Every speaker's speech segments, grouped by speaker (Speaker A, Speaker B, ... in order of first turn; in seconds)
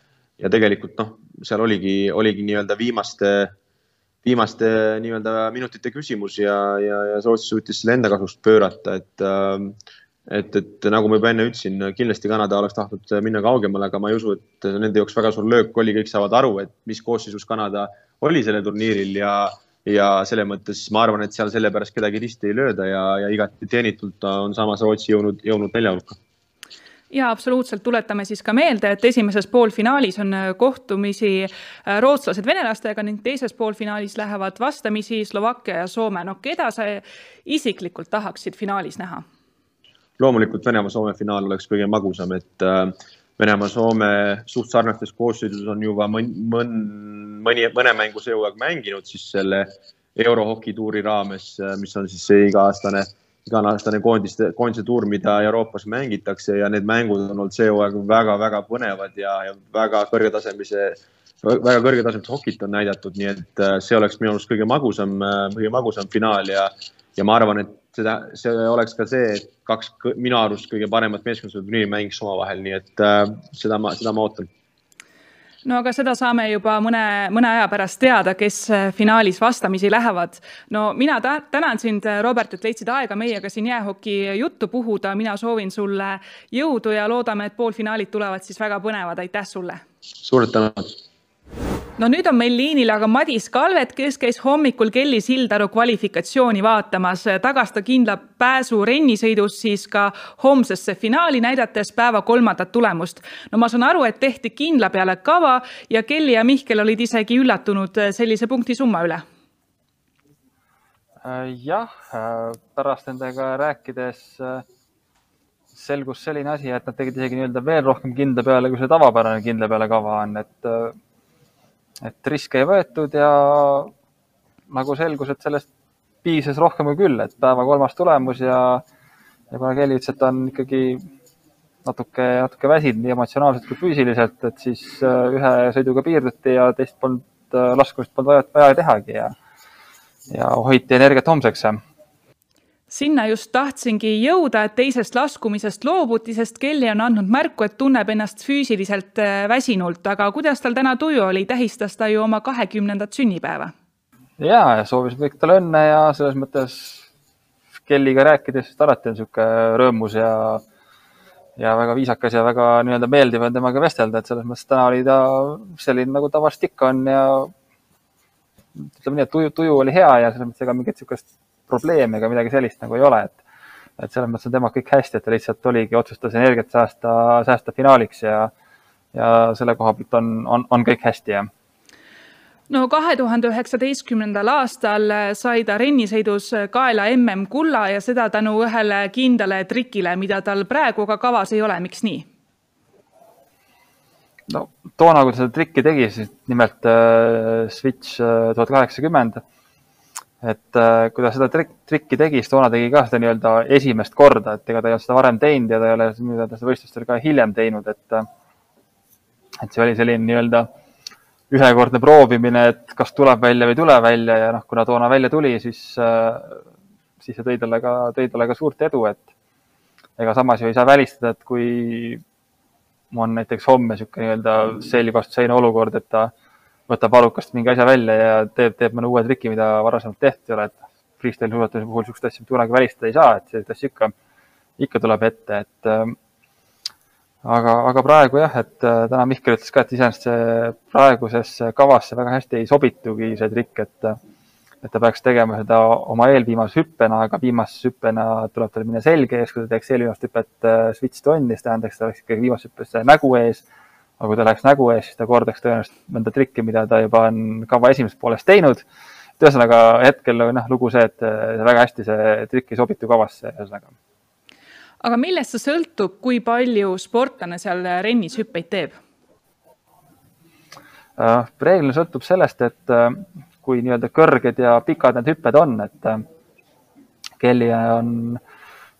Speaker A: 0.4-3.5, 4.2-26.2, 40.2-74.5, 90.2-90.9
Speaker B: 27.1-39.2, 75.6-89.8, 92.0-109.2, 142.9-153.7, 182.7-192.3, 265.0-268.9
Speaker C: 111.2-114.6, 115.7-120.9, 122.0-123.9, 124.7-125.7, 126.2-128.8, 129.5-131.1, 131.8-139.3, 140.3-141.8, 154.4-157.1, 157.9-160.6, 161.6-167.5, 168.8-173.4, 174.0-178.5, 179.1-181.5, 194.5-199.4, 200.4-208.3, 209.6-210.7, 211.5-216.6, 217.2-219.3, 220.2-222.2, 223.1-226.3, 226.9-234.1, 234.8-236.2, 237.4-244.2, 244.8-253.6, 254.2-258.8, 259.4-263.9, 271.2-276.2, 277.4-278.4